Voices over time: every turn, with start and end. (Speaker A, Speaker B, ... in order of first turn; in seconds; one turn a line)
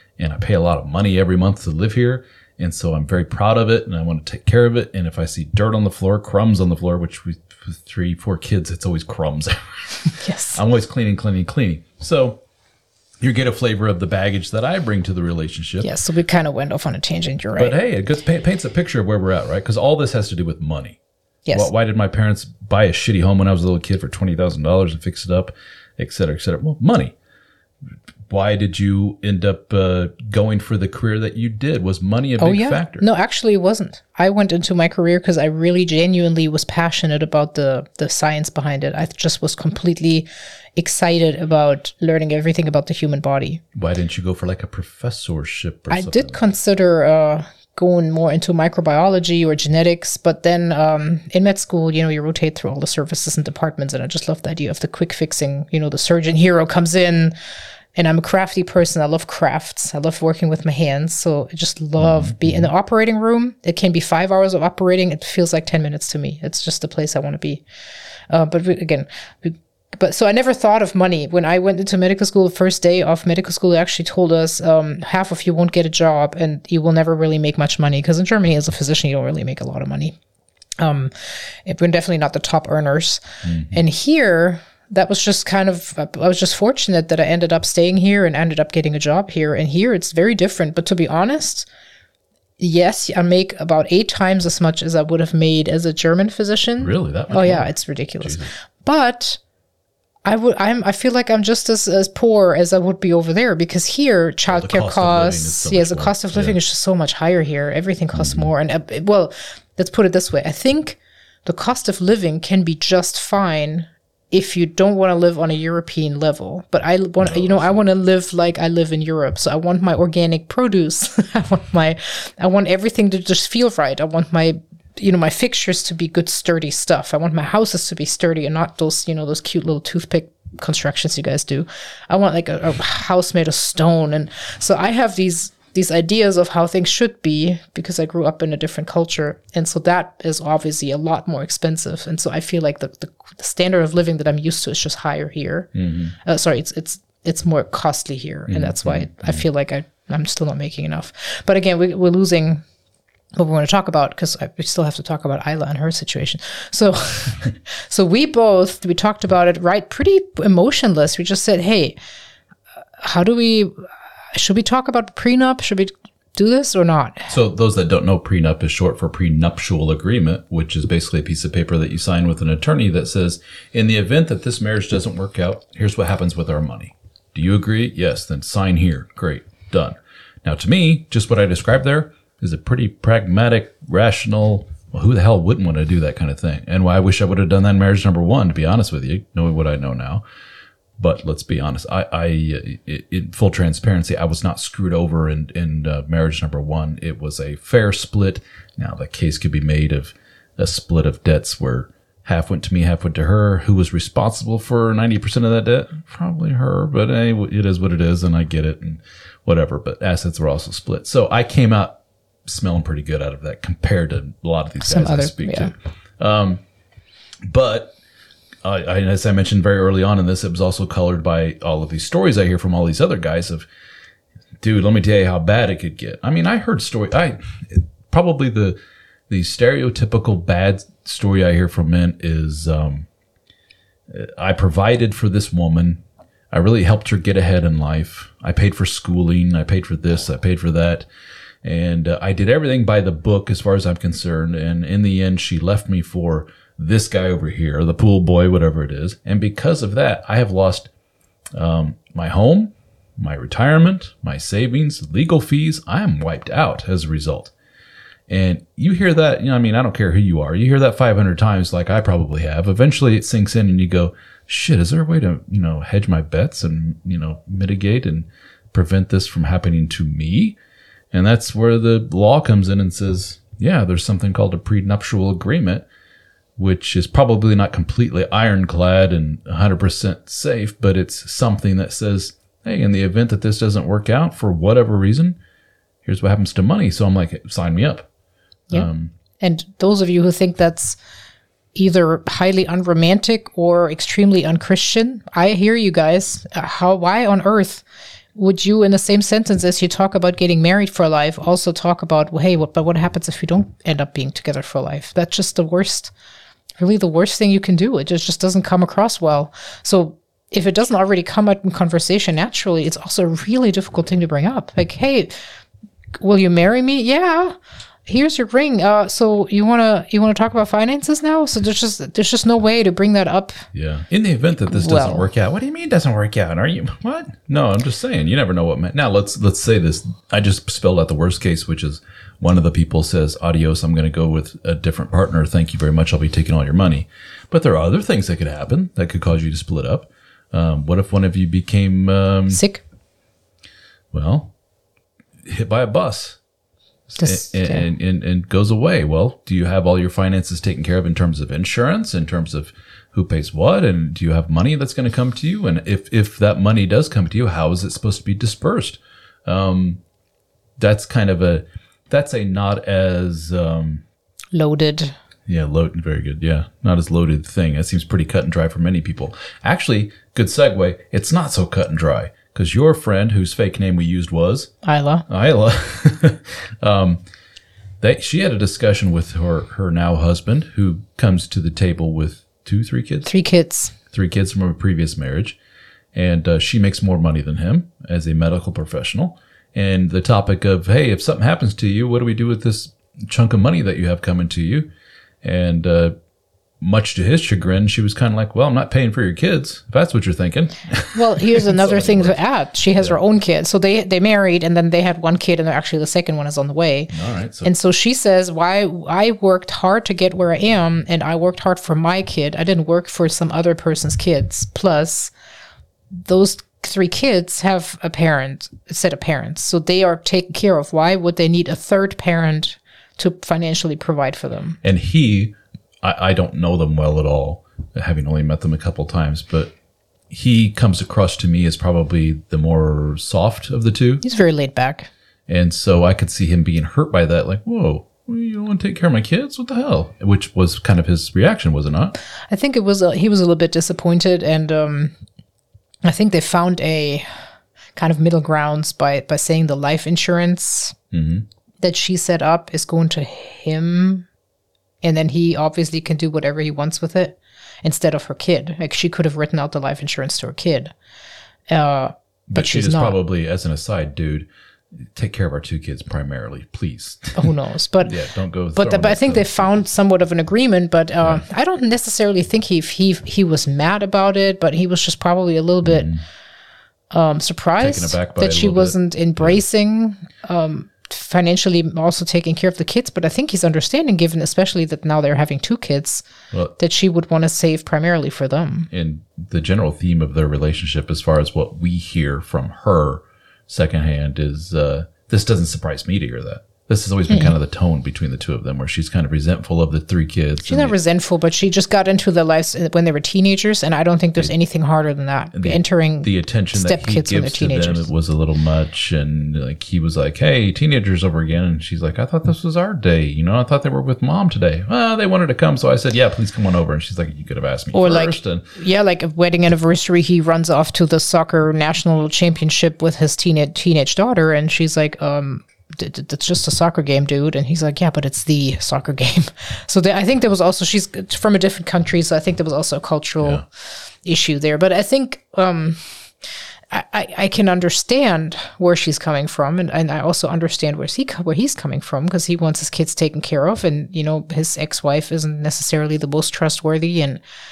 Speaker A: 0.2-12.4
Speaker B: 10.2-10.6
Speaker A: 13.2-15.9
Speaker B: 15.8-17.7
Speaker A: 17.5-21.0
Speaker B: 21.4-21.7
Speaker A: 21.5-27.1
Speaker A: 28.3-33.0
Speaker B: 32.4-43.6
Speaker A: 43.7-46.4
Speaker B: 45.9-57.3
Speaker B: 57.9-67.6
Speaker A: 62.0-62.7
Speaker B: 68.3-80.2
Speaker B: 80.8-91.7
Speaker A: 83.4-83.8
Speaker B: 92.6-99.4
Speaker A: 96.8-98.5
Speaker B: 100.2-145.7
Speaker A: 104.5-106.6
Speaker A: 108.1-108.5
Speaker A: 117.2-117.8
Speaker A: 145.7-146.1
Speaker B: 146.2-152.6
Speaker A: 148.5-149.4
Speaker B: 153.3-162.0
Speaker B: 163.0-163.7
Speaker B: 164.3-167.3
Speaker A: 167.3-190.2
Speaker A: 191.0-216.6
Speaker B: 214.8-215.7
Speaker A: 217.4-217.9
Speaker A: 218.6-223.7
Speaker A: 224.6-228.8
Speaker A: 229.3-233.1
Speaker A: 234.1-241.1
Speaker A: 241.6-250.9
Speaker A: 251.6-257.5
Speaker A: 258.3-270.6
Speaker A: 271.1-275.8
Speaker A: 276.6-285.4
Speaker A: 286.0-288.1
Speaker A: 288.7-289.1
Speaker B: 289.4-291.0
Speaker B: 291.7-297.8
Speaker B: 298.3-306.1
Speaker B: 306.8-315.4
Speaker B: 316.1-317.6
Speaker B: 318.1-323.6
Speaker A: 323.7-342.6
Speaker B: 324.7-325.3
Speaker B: 342.5-342.8
Speaker A: 344.1-344.5
Speaker A: 345.4-346.4
Speaker A: 347.1-360.0
Speaker B: 347.2-347.9
Speaker A: 360.8-364.0
Speaker B: 364.5-365.1
Speaker A: 365.5-374.7
Speaker B: 374.8-375.2
Speaker A: 375.3-377.2
Speaker A: 378.0-383.3
Speaker B: 383.2-383.9
Speaker A: 384.1-385.6
Speaker A: 386.1-394.9
Speaker A: 395.4-396.1
Speaker A: 396.8-402.4
Speaker B: 401.1-407.1
Speaker A: 407.1-407.7
Speaker B: 407.6-415.3
Speaker B: 416.1-424.8
Speaker A: 424.8-429.7
Speaker A: 430.3-434.2
Speaker B: 434.2-435.1
Speaker A: 435.5-442.1
Speaker B: 442.5-445.1
Speaker B: 446.0-447.2
Speaker B: 447.9-450.9
Speaker A: 451.1-451.4
Speaker B: 451.8-454.3
Speaker B: 455.0-460.9
Speaker B: 461.7-463.2
Speaker A: 462.5-464.5
Speaker A: 465.0-469.7
Speaker B: 467.4-468.1
Speaker B: 468.8-476.1
Speaker A: 475.8-476.2
Speaker B: 477.1-486.2
Speaker A: 477.8-479.6
Speaker B: 486.8-488.9
Speaker A: 488.9-500.9
Speaker B: 500.6-508.1
Speaker A: 505.5-518.6
Speaker B: 517.9-547.4